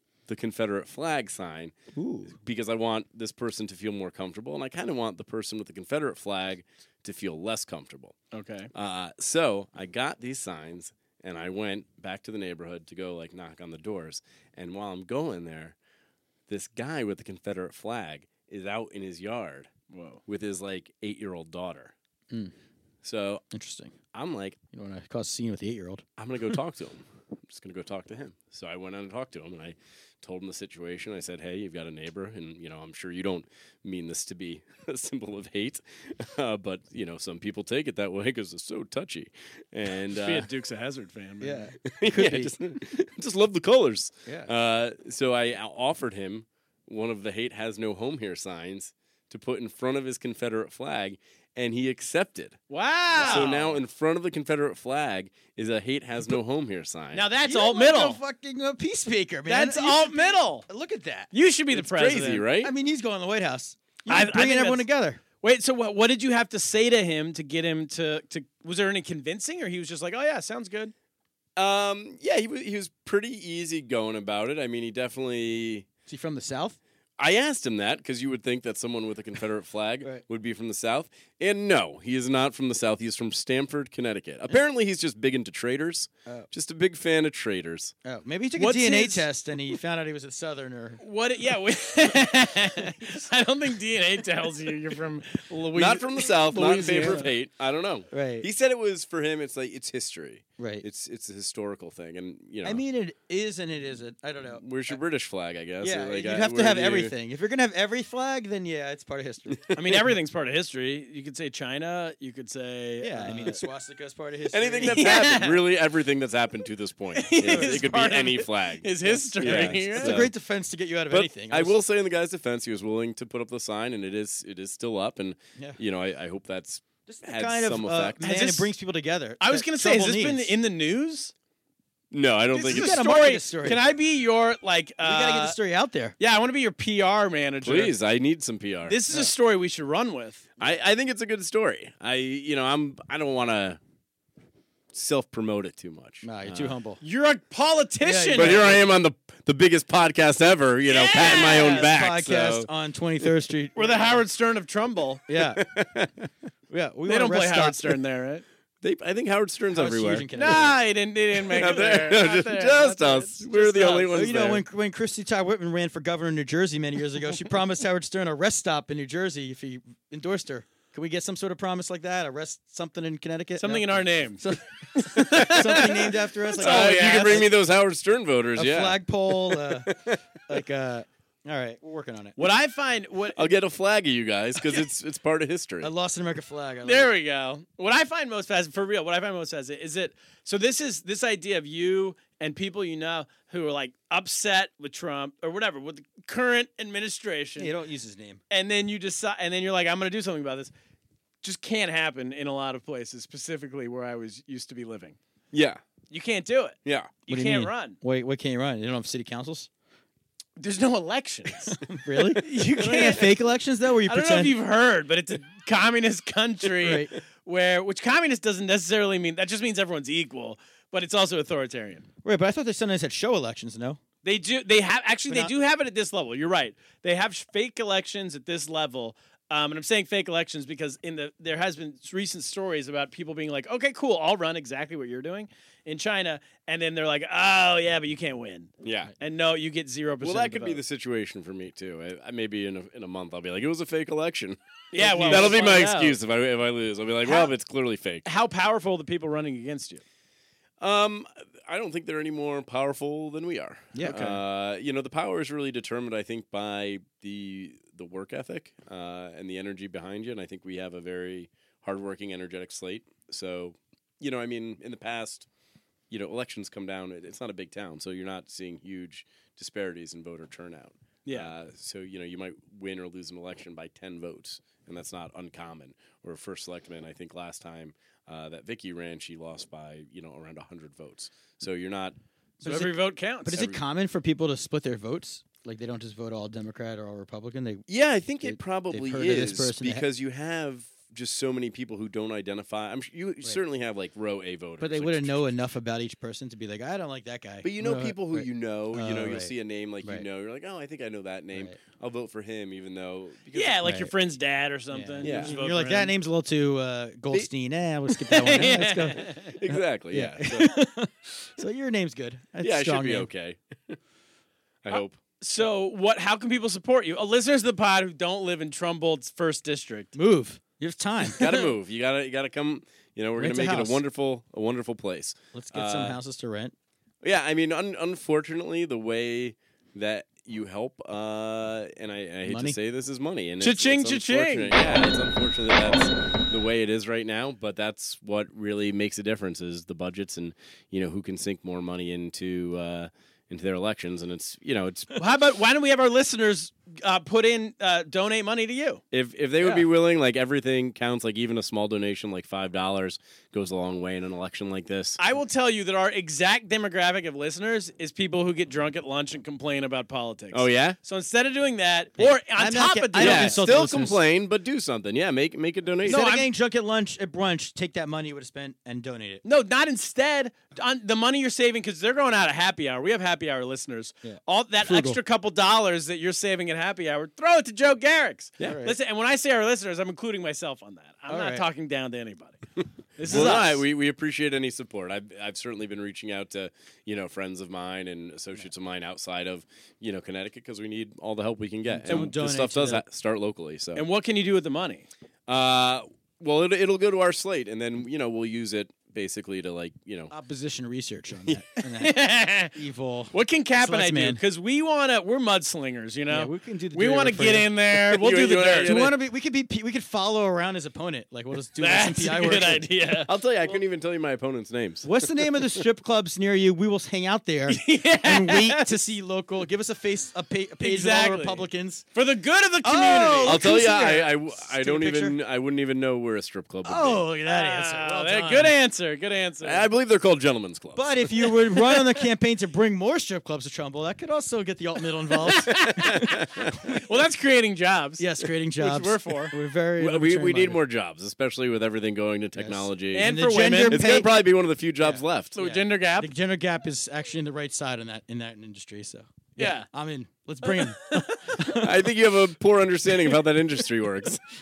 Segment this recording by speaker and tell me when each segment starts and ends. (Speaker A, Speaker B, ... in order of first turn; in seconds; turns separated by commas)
Speaker A: 0.3-1.7, Speaker B: 1.9-2.4, Speaker A: 2.4-8.1, Speaker C: 8.3-8.7, Speaker A: 8.7-15.8, Speaker A: 16.5-19.7, Speaker C: 19.9-20.2, Speaker A: 20.3-21.9, Speaker A: 23.0-23.4, Speaker B: 23.5-24.0, Speaker A: 24.1-24.6, Speaker B: 24.7-26.1, Speaker A: 26.2-40.5, Speaker C: 40.1-41.6, Speaker B: 41.4-42.5, Speaker A: 41.9-52.6, Speaker B: 44.2-44.5, Speaker C: 52.7-53.8, Speaker A: 53.1-57.2, Speaker B: 53.2-53.5, Speaker C: 57.1-58.2, Speaker B: 57.4-61.3, Speaker C: 59.5-60.6, Speaker C: 61.3-62.5, Speaker A: 61.7-62.7, Speaker B: 62.6-65.2, Speaker C: 64.1-64.8, Speaker C: 65.4-70.9, Speaker A: 71.5-75.8, Speaker B: 76.1-76.8, Speaker A: 77.2-87.9, Speaker B: 88.0-91.0, Speaker C: 88.6-89.2, Speaker C: 91.0-97.3, Speaker A: 95.7-102.8, Speaker B: 98.1-98.5, Speaker B: 100.6-100.8, Speaker B: 102.6-105.0, Speaker A: 104.5-107.1, Speaker B: 105.8-109.7, Speaker C: 109.7-113.6, Speaker B: 113.0-115.2, Speaker A: 114.5-120.3, Speaker C: 114.9-115.6, Speaker C: 117.1-120.3, Speaker B: 117.4-117.9, Speaker B: 119.1-121.8, Speaker A: 121.1-128.2, Speaker B: 127.1-130.5, Speaker C: 128.2-128.7, Speaker C: 129.4-131.3, Speaker A: 132.1-133.0, Speaker C: 132.5-135.6, Speaker B: 132.7-133.8, Speaker B: 135.0-136.2, Speaker C: 136.2-137.9, Speaker A: 137.6-139.0, Speaker C: 138.8-140.5, Speaker A: 140.6-143.8, Speaker A: 144.9-146.7, Speaker B: 146.2-147.0, Speaker C: 147.0-148.7, Speaker B: 148.0-148.8, Speaker A: 148.3-152.7, Speaker C: 150.9-151.9, Speaker B: 151.2-154.2, Speaker C: 153.8-155.2, Speaker B: 155.3-155.6, Speaker A: 155.6-156.3, Speaker B: 156.7-157.8, Speaker C: 157.1-158.4, Speaker A: 158.8-160.2, Speaker B: 159.7-160.8, Speaker C: 160.3-164.2, Speaker A: 161.5-164.6, Speaker B: 164.1-177.5, Speaker C: 173.6-177.5, Speaker A: 176.6-180.2, Speaker B: 178.5-179.9, Speaker B: 180.5-182.3, Speaker C: 182.4-183.5, Speaker A: 183.3-185.9, Speaker B: 185.8-187.1, Speaker C: 186.8-197.7, Speaker B: 197.6-198.4, Speaker C: 198.5-200.7, Speaker C: 201.4-205.2, Speaker A: 205.5-205.8, Speaker C: 206.1-208.0, Speaker A: 206.8-207.2, Speaker B: 207.3-209.7, Speaker C: 210.6-211.8, Speaker B: 211.7-214.5, Speaker C: 212.3-213.4, Speaker C: 214.0-222.1, Speaker B: 216.8-217.1, Speaker B: 222.2-224.0, Speaker C: 224.2-240.8, Speaker A: 238.8-239.1, Speaker A: 240.2-248.2, Speaker C: 244.9-246.2, Speaker B: 244.9-245.7, Speaker C: 248.2-250.0, Speaker A: 250.8-265.5, Speaker B: 253.9-254.3, Speaker C: 254.0-254.3, Speaker A: 266.1-282.1, Speaker C: 271.2-271.5, Speaker B: 282.6-282.9, Speaker C: 282.6-283.6, Speaker B: 283.4-287.9, Speaker A: 287.9-295.5, Speaker B: 288.4-290.1, Speaker B: 294.8-299.5, Speaker A: 297.6-303.7, Speaker B: 301.5-301.8, Speaker C: 303.5-306.1, Speaker B: 303.8-304.1, Speaker B: 304.9-313.3, Speaker A: 305.2-305.6, Speaker C: 308.3-309.5, Speaker A: 309.4-310.7, Speaker A: 312.6-314.0, Speaker A: 314.8-315.2, Speaker C: 315.4-320.1, Speaker B: 320.1-321.6, Speaker A: 321.4-326.2, Speaker B: 323.4-324.0, Speaker B: 325.5-326.7, Speaker A: 327.2-345.1, Speaker B: 332.4-332.8, Speaker C: 333.6-335.0, Speaker C: 345.1-349.0, Speaker A: 349.1-355.2, Speaker C: 349.6-349.9, Speaker C: 355.2-363.8, Speaker A: 360.5-361.0, Speaker B: 362.2-364.2, Speaker A: 363.1-366.3, Speaker C: 366.0-366.4, Speaker B: 366.0-369.4, Speaker C: 369.4-382.6, Speaker B: 374.2-375.2, Speaker B: 378.6-379.0, Speaker B: 381.3-381.6, Speaker C: 383.1-383.8, Speaker A: 383.2-394.0, Speaker B: 383.3-383.7, Speaker B: 391.9-393.0, Speaker C: 392.1-392.3, Speaker C: 393.9-395.1, Speaker A: 395.5-400.3, Speaker B: 400.3-404.4, Speaker C: 402.0-402.8, Speaker C: 403.3-409.0, Speaker B: 406.3-407.7, Speaker A: 408.1-409.1, Speaker B: 408.8-412.8, Speaker C: 411.8-413.7, Speaker A: 413.2-415.3, Speaker B: 415.0-422.1, Speaker C: 417.7-418.9, Speaker C: 420.8-423.7, Speaker B: 422.8-425.4, Speaker A: 423.4-427.2, Speaker B: 426.8-428.7, Speaker C: 427.5-429.9, Speaker A: 429.6-431.1, Speaker B: 430.9-437.0, Speaker C: 431.7-432.2, Speaker C: 435.5-436.3, Speaker A: 435.7-436.7, Speaker C: 436.9-439.5, Speaker B: 438.2-440.8, Speaker A: 440.0-443.3, Speaker B: 442.6-444.3, Speaker C: 443.1-444.2, Speaker A: 443.8-445.5, Speaker B: 445.0-452.1, Speaker C: 445.5-446.3, Speaker C: 449.6-449.9, Speaker C: 450.8-451.5, Speaker A: 451.8-454.4